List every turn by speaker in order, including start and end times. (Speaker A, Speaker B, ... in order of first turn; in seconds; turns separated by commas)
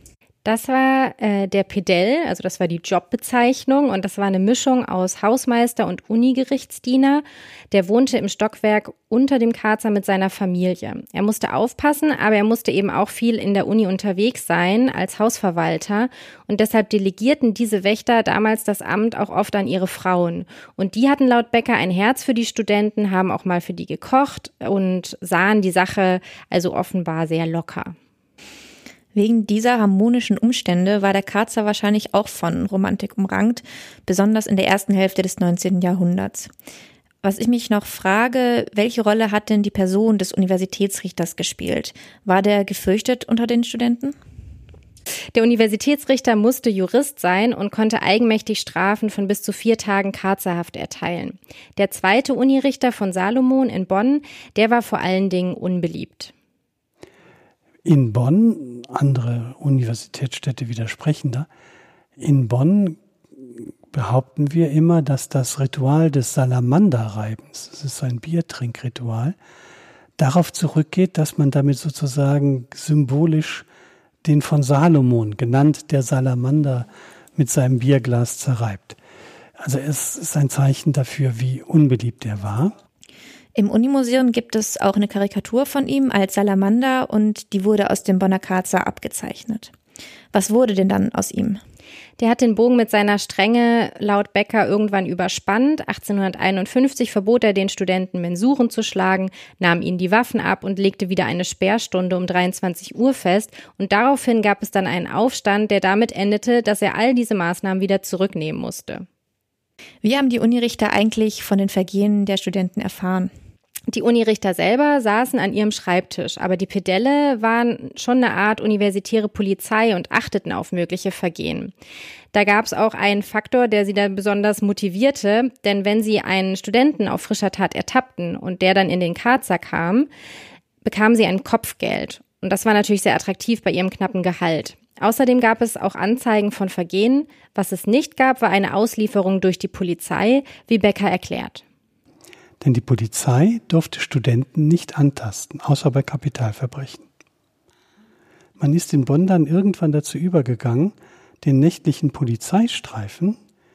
Speaker A: 0.5-28.0, Speaker B: 29.1-36.5, Speaker B: 37.2-44.1, Speaker A: 45.3-56.3, Speaker C: 57.9-61.5, Speaker C: 62.2-63.0, Speaker C: 63.6-69.4, Speaker C: 70.2-73.7, Speaker C: 74.2-79.0, Speaker C: 79.6-82.7, Speaker B: 83.6-89.7, Speaker B: 90.3-91.6, Speaker A: 92.2-109.1, Speaker B: 110.0-113.3, Speaker A: 113.9-121.7, Speaker A: 122.3-130.1, Speaker A: 130.8-141.6, Speaker C: 142.6-147.1, Speaker C: 148.6-153.4